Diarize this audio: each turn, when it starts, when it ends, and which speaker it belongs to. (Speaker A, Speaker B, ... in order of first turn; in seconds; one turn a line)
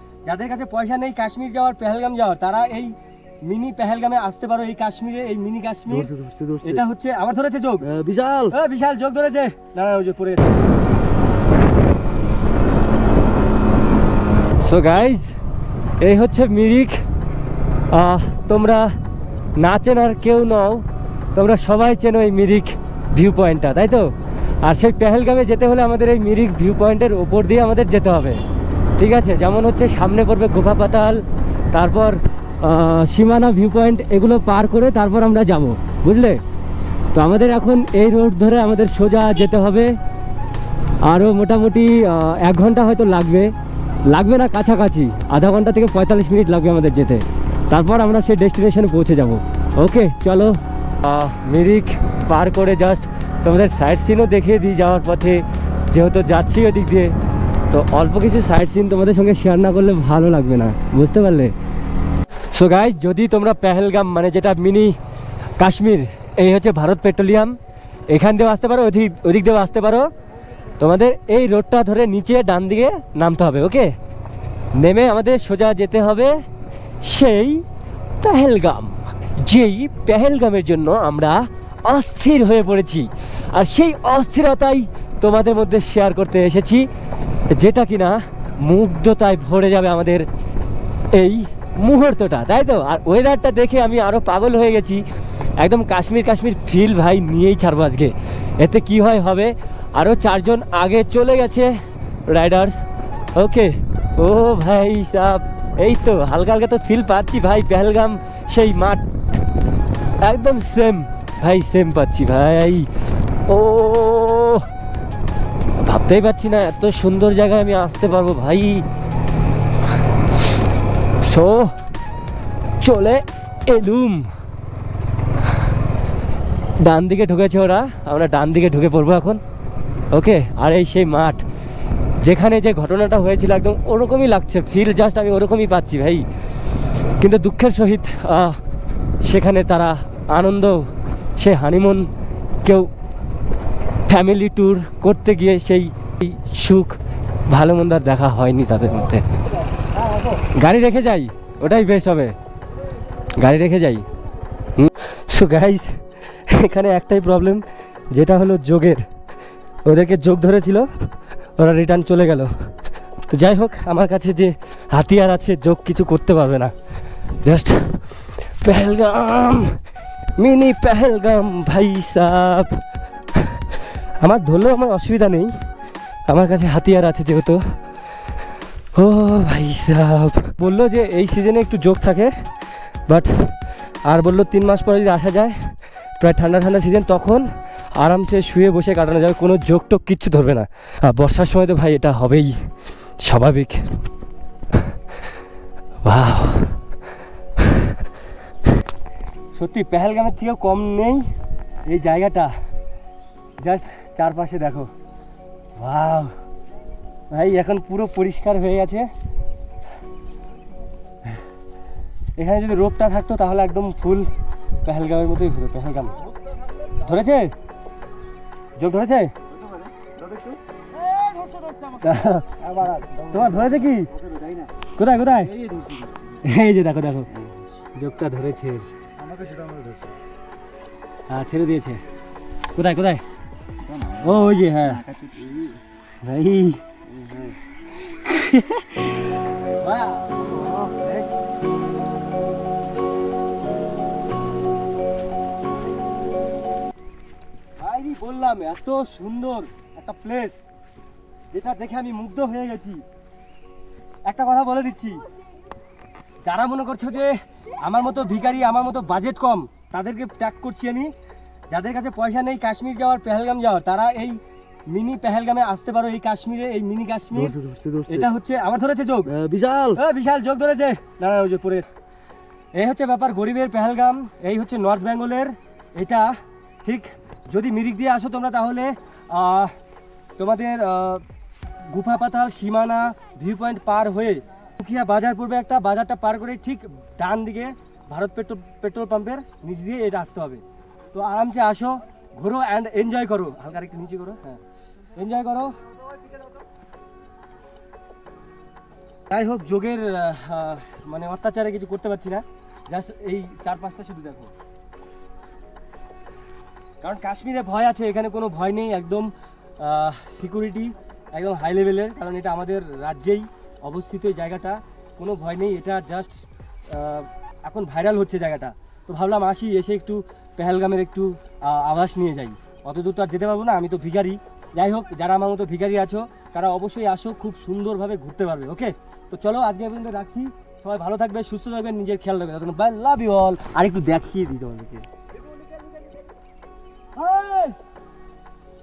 Speaker A: 0.2-2.9
Speaker A: 3.4-6.1
Speaker B: 5.9-6.8
Speaker A: 6.6-7.9
Speaker B: 7.8-8.5
Speaker A: 8.5-10.6
Speaker A: 14.6-15.3
Speaker A: 16.0-17.0
Speaker A: 17.9-18.9
Speaker A: 19.6-24.1
Speaker A: 24.6-28.4
Speaker A: 29.0-36.4
Speaker A: 37.1-40.0
Speaker A: 41.0-43.5
Speaker A: 44.1-57.1
Speaker A: 57.7-61.5
Speaker A: 62.5-65.0
Speaker A: 65.6-67.6
Speaker A: 68.1-70.1
Speaker A: 70.8-73.9
Speaker A: 74.7-76.4
Speaker A: 77.0-77.7
Speaker A: 78.2-86.9
Speaker A: 87.5-90.3
Speaker A: 91.1-95.0
Speaker A: 95.6-102.8
Speaker A: 103.3-109.0
Speaker A: 110.2-112.9
Speaker A: 113.5-114.7
Speaker A: 115.8-118.8
Speaker A: 121.2-121.7
Speaker A: 122.8-124.3
Speaker A: 126.8-129.4
Speaker A: 130.1-131.4
Speaker A: 132.2-136.2
Speaker A: 137.2-138.6
Speaker A: 139.2-142.1
Speaker A: 142.6-142.9
Speaker A: 144.1-147.0
Speaker A: 147.5-149.3
Speaker A: 150.1-152.3
Speaker A: 153.3-154.1
Speaker A: 154.8-159.1
Speaker A: 159.8-160.9
Speaker A: 161.6-162.5
Speaker A: 163.3-166.7
Speaker A: 167.4-168.0
Speaker A: 168.6-169.8
Speaker A: 170.4-172.8
Speaker A: 174.2-175.5
Speaker A: 176.3-177.6
Speaker A: 178.9-182.3
Speaker A: 183.1-183.5
Speaker A: 184.1-192.7
Speaker A: 193.2-193.9
Speaker A: 196.0-196.8
Speaker A: 199.6-201.3
Speaker A: 201.9-202.5
Speaker A: 203.6-204.9
Speaker A: 205.8-206.3
Speaker A: 207.3-209.1
Speaker A: 212.3-214.3
Speaker A: 214.8-216.2
Speaker A: 216.9-217.5
Speaker A: 218.8-219.3
Speaker B: 219.6-220.6
Speaker B: 221.2-221.9
Speaker A: 222.0-224.1
Speaker B: 222.6-223.5
Speaker B: 224.2-224.7
Speaker A: 224.9-225.6
Speaker B: 225.5-226.4
Speaker A: 226.4-227.3
Speaker A: 227.9-228.9
Speaker B: 229.3-230.1
Speaker A: 231.3-232.0
Speaker A: 232.7-233.2
Speaker B: 233.9-234.4
Speaker A: 234.2-235.1
Speaker B: 234.9-235.8
Speaker A: 236.2-236.8
Speaker B: 237.1-237.5
Speaker A: 238.1-240.9
Speaker B: 240.6-241.2
Speaker A: 247.8-250.6
Speaker A: 251.5-253.0
Speaker A: 254.2-255.2
Speaker A: 256.4-261.1
Speaker A: 261.7-267.6
Speaker B: 267.3-268.3
Speaker A: 268.1-269.3
Speaker B: 269.3-270.0
Speaker A: 269.9-271.9
Speaker A: 272.7-276.3
Speaker A: 276.8-279.7
Speaker A: 280.4-281.2
Speaker A: 281.9-294.6
Speaker A: 295.1-295.8
Speaker A: 299.3-304.5
Speaker A: 307.0-335.1
Speaker A: 337.1-337.8